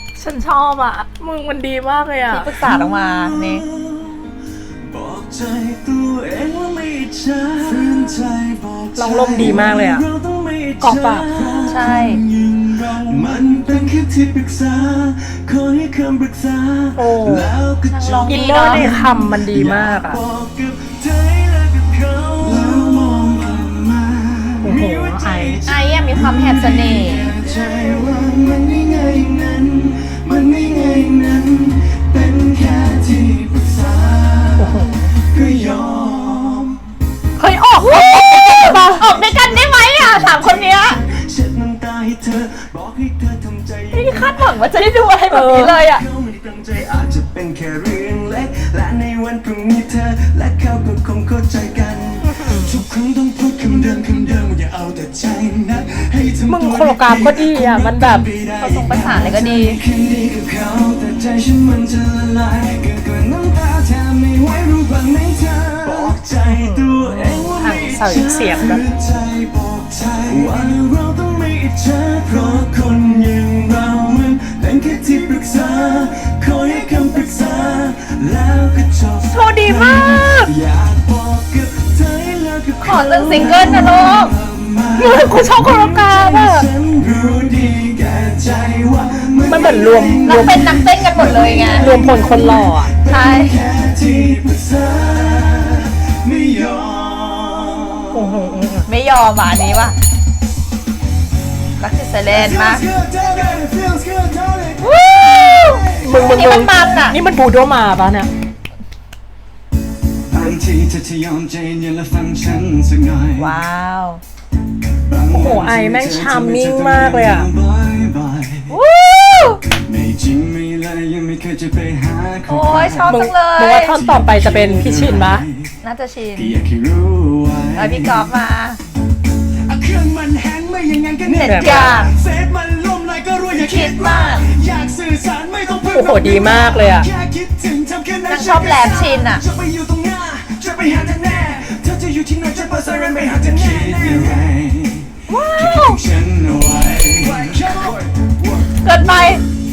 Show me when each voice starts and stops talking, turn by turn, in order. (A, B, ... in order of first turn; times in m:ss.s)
0:00.2-0:02.5 A
0:02.2-0:03.6 B
0:02.6-0:36.8 C
0:09.0-0:10.0 A
0:10.8-0:11.7 A
0:11.7-0:12.2 B
0:17.0-0:17.6 A
0:17.9-0:18.9 B
0:18.3-0:20.2 A
0:24.6-0:25.6 A
0:25.6-0:27.4 B
0:34.6-0:34.9 A
0:37.4-0:39.1 A
0:37.8-0:41.0 B
0:38.7-0:44.5 C
0:43.9-0:46.0 B
0:45.3-0:45.8 A
0:45.5-1:38.4 C
0:52.2-0:52.8 A
0:56.5-0:58.3 A
0:58.6-0:59.8 B
1:06.5-1:08.8 A
1:19.3-1:20.5 A
1:22.8-1:24.3 B
1:25.0-1:26.7 A
1:29.4-1:30.7 A
1:30.2-1:32.0 B
1:31.7-1:32.9 A
1:33.1-1:33.6 B
1:38.1-1:38.9 A
1:38.9-1:40.0 B
1:41.8-1:42.9 B
1:42.3-1:46.7 C
1:44.8-1:47.2 B
1:46.0-1:48.3 A
1:50.3-1:53.6 C
1:53.4-1:54.2 B
1:55.1-1:58.7 C
1:55.3-1:57.5 A
1:58.7-1:59.6 B
1:59.7-2:05.7 C
2:02.5-2:04.0 B
2:03.1-2:05.5 A
2:05.8-2:06.6 B
2:06.4-2:08.3 C
2:07.8-2:08.8 B
2:09.7-2:29.3 C
2:11.2-2:12.1 B
2:11.4-2:12.0 A
2:13.6-2:14.5 B
2:15.9-2:17.1 A
2:18.3-2:19.4 B
2:25.3-2:26.0 B
2:27.7-2:27.9 B
2:28.7-2:29.4 B